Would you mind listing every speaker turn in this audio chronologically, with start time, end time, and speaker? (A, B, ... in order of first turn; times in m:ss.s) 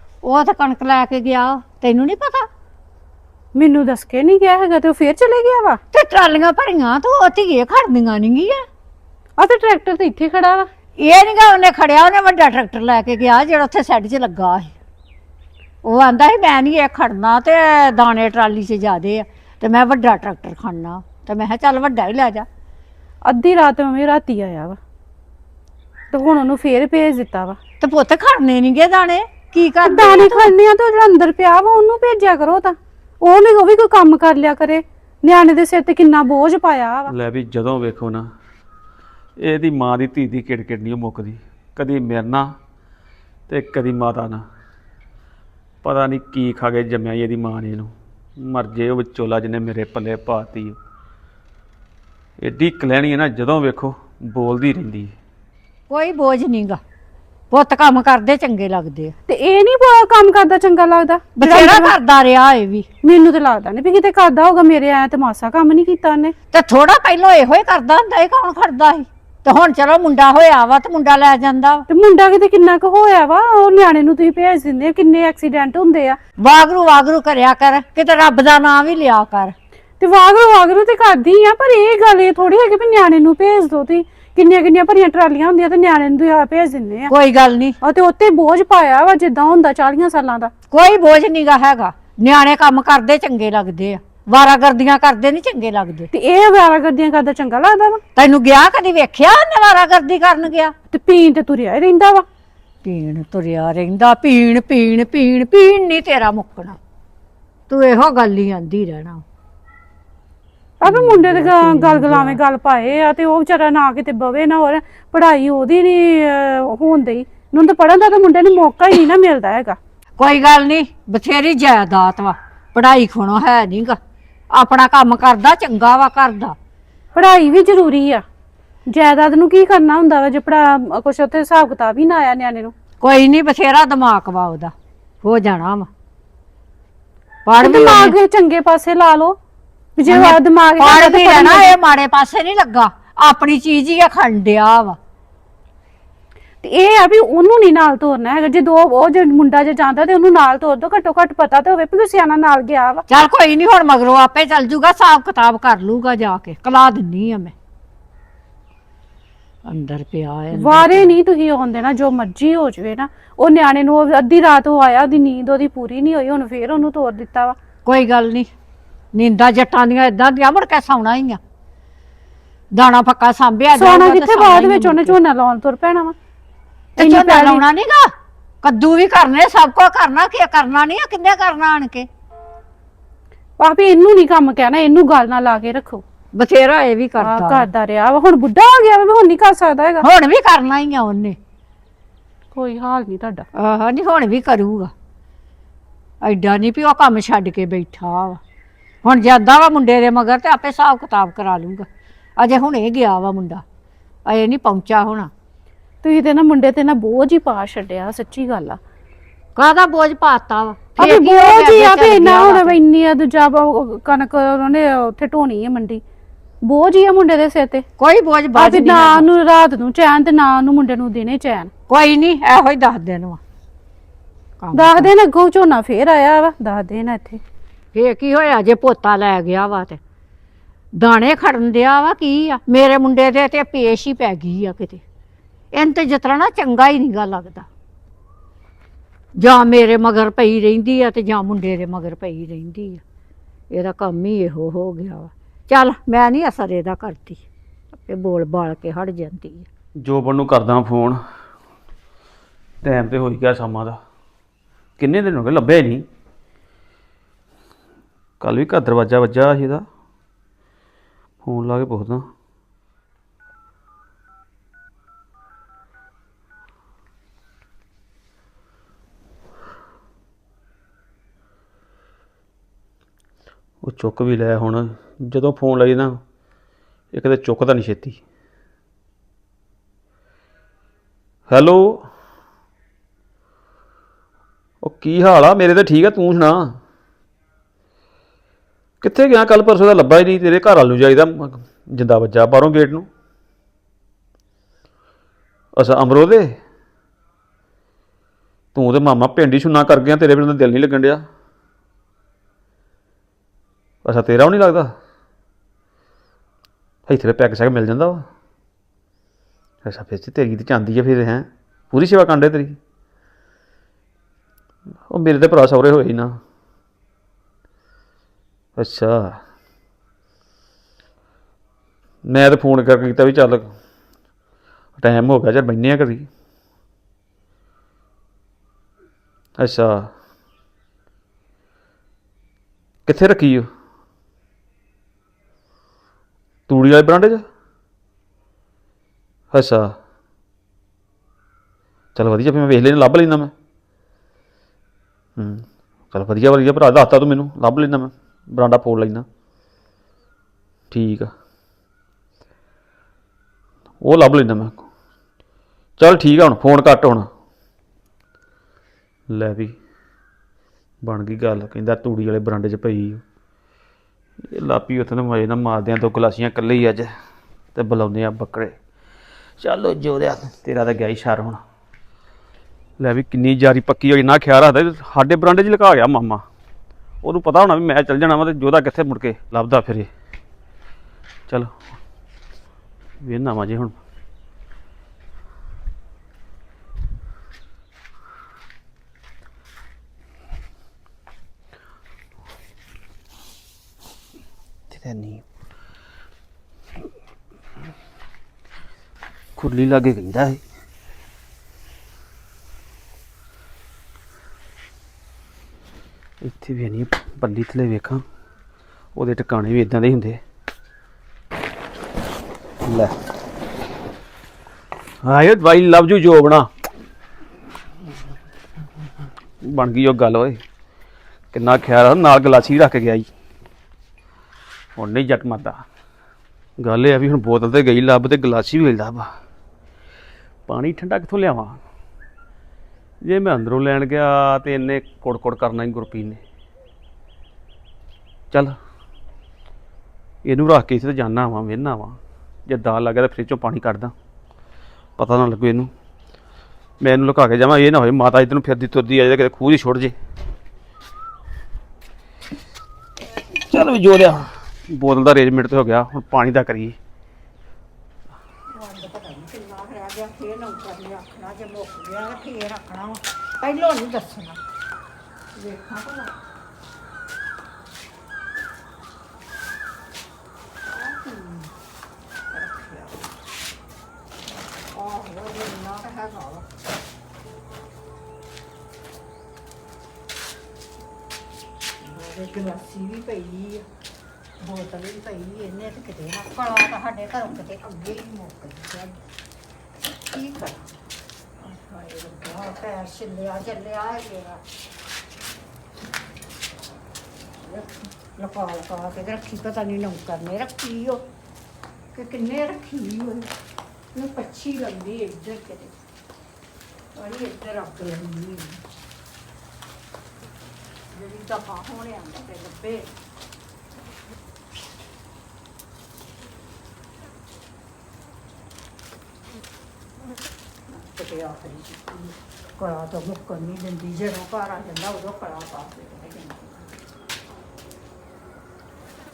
0:00.2-0:02.5 A
0:03.5-0:05.8 B
0:05.9-0:08.6 A
0:09.4-0:10.7 B
0:11.0-0:14.7 A
0:15.8-0:22.5 A
0:23.2-0:24.8 B
0:26.1-0:27.6 B
0:27.8-0:30.5 A
0:29.8-0:37.1 B
0:37.1-0:38.2 C
0:39.4-0:42.5 C
0:43.5-0:44.4 C
0:45.8-0:50.8 C
0:52.4-0:55.1 C
0:55.9-0:56.8 A
0:57.5-0:59.1 A
0:59.3-1:01.9 B
1:01.3-1:02.9 A
1:03.0-1:06.3 B
1:06.5-1:11.8 A
1:11.9-1:16.2 B
1:16.4-1:19.5 A
1:20.0-1:27.1 B
1:27.1-1:27.8 A
1:27.8-1:30.5 B
1:30.7-1:36.1 A
1:36.1-1:38.0 B
1:38.1-1:40.7 A
1:40.9-1:42.2 B
1:42.8-1:46.8 A
1:47.7-1:49.2 A
1:50.8-1:59.8 B
1:50.8-1:52.4 A
2:00.2-2:04.0 A
2:04.5-2:06.5 A
2:07.1-2:08.2 B
2:08.9-2:12.7 B
2:13.0-2:15.9 A
2:17.4-2:18.2 A
2:17.6-2:19.4 B
2:20.0-2:21.7 B
2:20.0-2:25.0 A
2:26.6-2:33.0 B
2:33.1-2:37.5 A
2:39.7-2:41.1 A
2:40.5-2:47.6 B
2:47.8-2:48.5 A
2:49.1-2:51.4 A
2:52.7-2:55.2 A
2:53.7-2:56.1 B
2:57.0-2:58.1 A
2:57.0-2:57.6 B
2:58.6-3:02.1 A
3:03.6-3:06.0 B
3:06.3-3:07.7 A
3:07.2-3:10.0 B
3:10.0-3:11.4 A
3:12.5-3:13.4 B
3:13.6-3:14.9 A
3:16.2-3:18.4 A
3:19.0-3:21.8 A
3:22.4-3:23.6 A
3:24.3-3:25.3 A
3:26.0-3:28.8 B
3:29.6-3:32.8 A
3:31.0-3:36.0 B
3:36.6-3:37.8 B
3:38.0-3:39.3 A
3:38.5-3:41.7 B
3:41.9-3:43.4 A
3:44.6-3:45.1 A
3:44.7-3:47.4 B
3:47.9-3:50.0 A
3:51.0-3:55.0 A
3:55.7-3:57.7 A
3:59.4-4:03.0 A
4:03.7-4:07.4 A
4:07.9-4:09.7 A
4:10.0-4:11.2 C
4:12.8-4:14.0 C
4:15.0-4:16.0 C
4:18.4-4:19.8 C
4:21.4-4:22.2 C
4:33.8-4:36.2 C
4:37.1-4:38.2 C
4:41.5-4:42.0 C
4:44.8-4:46.6 C
4:49.0-4:53.1 C
4:55.8-4:56.6 C
4:58.7-5:01.2 C
5:04.0-5:04.9 C
5:07.1-5:08.2 C
5:09.8-5:12.8 C
5:15.1-5:16.4 C
5:18.8-5:19.4 C
5:22.2-5:23.7 C
5:25.0-5:26.3 C
5:29.6-5:30.1 C
5:33.1-5:33.7 C
5:36.7-5:37.4 C
5:39.5-5:39.9 C
5:42.1-5:43.5 C
5:45.4-5:49.2 C
5:50.9-5:51.3 C
5:54.0-5:54.8 C
5:56.0-5:57.3 C
5:59.3-5:59.7 C
6:01.0-6:03.2 C
6:04.5-6:07.1 C
6:07.7-6:08.7 C
6:09.6-6:11.6 C
6:13.0-6:16.4 C
6:17.2-6:20.1 C
6:21.5-6:21.7 C
6:23.2-6:24.0 C
6:34.9-6:35.4 C
6:39.6-6:40.6 C
6:46.4-6:48.2 C
6:49.2-6:50.4 C
6:52.8-6:53.2 C
6:55.2-6:56.7 C
6:59.6-7:00.6 C
7:01.5-7:03.3 C
7:05.0-7:05.8 C
7:06.8-7:09.3 C
7:10.7-7:11.8 C
7:13.2-7:16.4 C
7:18.5-7:18.8 C
7:20.4-7:24.1 C
7:25.2-7:25.9 C
7:27.0-7:30.1 C
7:33.5-7:37.0 C
7:38.7-7:44.6 A
7:45.6-7:46.3 A
7:50.9-7:51.7 A
7:52.5-7:53.3 A
7:54.9-7:56.6 A
8:02.0-8:03.8 A
8:04.6-8:09.2 A
8:10.3-8:10.9 A
8:11.6-8:14.6 A
8:17.6-8:21.2 A
8:22.1-8:23.5 A
8:24.1-8:25.9 A
8:27.1-8:28.8 A
8:31.1-8:33.1 A
8:40.9-8:46.9 A